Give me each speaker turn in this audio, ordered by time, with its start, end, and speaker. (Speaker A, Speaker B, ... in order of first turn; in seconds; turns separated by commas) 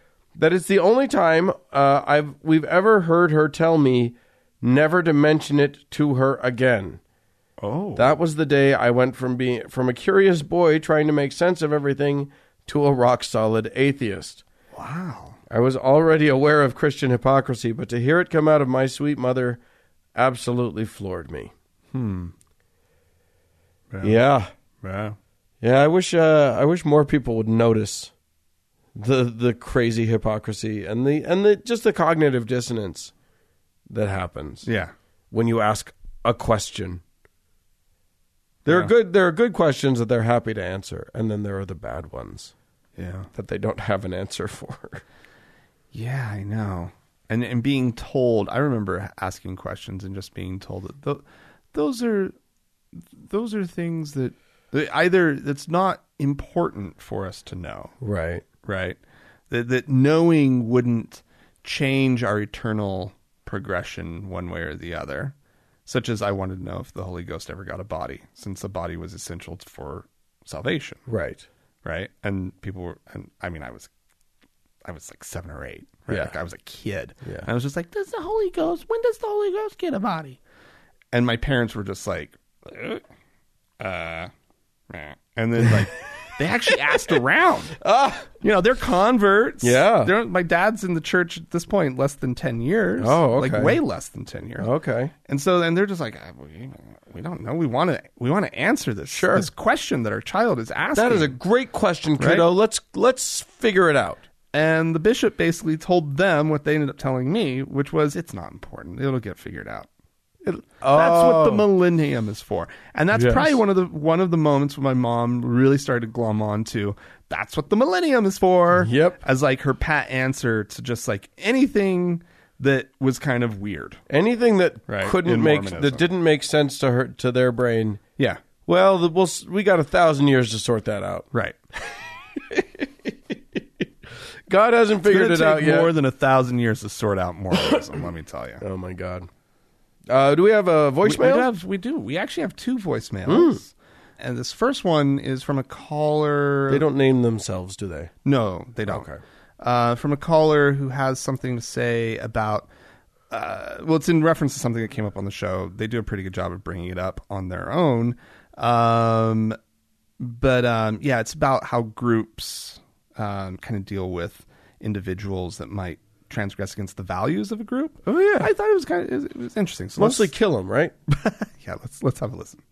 Speaker A: 0.3-7.0, Speaker B: 7.6-8.2, Speaker A: 8.0-14.4, Speaker B: 14.7-15.4, Speaker A: 15.5-19.6, Speaker A: 20.1-21.5, Speaker B: 21.9-22.3, Speaker B: 23.9-24.2, Speaker A: 24.0-24.5, Speaker B: 24.8-25.2, Speaker A: 25.6-28.1, Speaker A: 28.9-33.1, Speaker A: 33.9-34.7, Speaker B: 34.6-34.9, Speaker A: 35.3-37.0, Speaker A: 38.6-42.5, Speaker B: 38.6-38.9, Speaker B: 43.0-43.3, Speaker A: 43.3-45.0, Speaker B: 45.9-52.3, Speaker B: 52.9-57.9, Speaker A: 58.0-58.4, Speaker B: 58.6-59.0, Speaker B: 59.5-65.3, Speaker B: 65.8-71.0, Speaker A: 71.1-71.5, Speaker B: 71.8-73.9, Speaker B: 74.8-80.4, Speaker B: 81.1-83.0, Speaker B: 83.8-84.3, Speaker B: 84.9-87.8, Speaker A: 87.8-88.3, Speaker B: 88.4-94.7, Speaker A: 89.6-90.1, Speaker A: 93.0-93.8, Speaker A: 94.6-95.1, Speaker B: 95.2-101.4, Speaker A: 99.1-99.5, Speaker A: 100.9-104.2, Speaker B: 102.2-102.5, Speaker B: 104.5-109.9, Speaker A: 110.4-111.7, Speaker B: 110.8-124.0, Speaker A: 113.1-113.6, Speaker A: 118.8-119.2, Speaker A: 124.1-128.0, Speaker B: 124.9-126.0, Speaker A: 128.6-131.3, Speaker B: 131.3-131.6, Speaker A: 134.5-135.9, Speaker B: 135.0-138.6, Speaker A: 138.6-139.3, Speaker A: 140.1-141.5, Speaker B: 141.0-146.8, Speaker A: 143.3-143.6, Speaker A: 146.7-148.1, Speaker B: 148.2-149.1, Speaker A: 148.9-149.2, Speaker B: 149.6-152.7, Speaker B: 153.3-159.6, Speaker B: 160.2-170.3, Speaker A: 168.1-168.5, Speaker A: 170.0-170.9, Speaker B: 171.1-172.6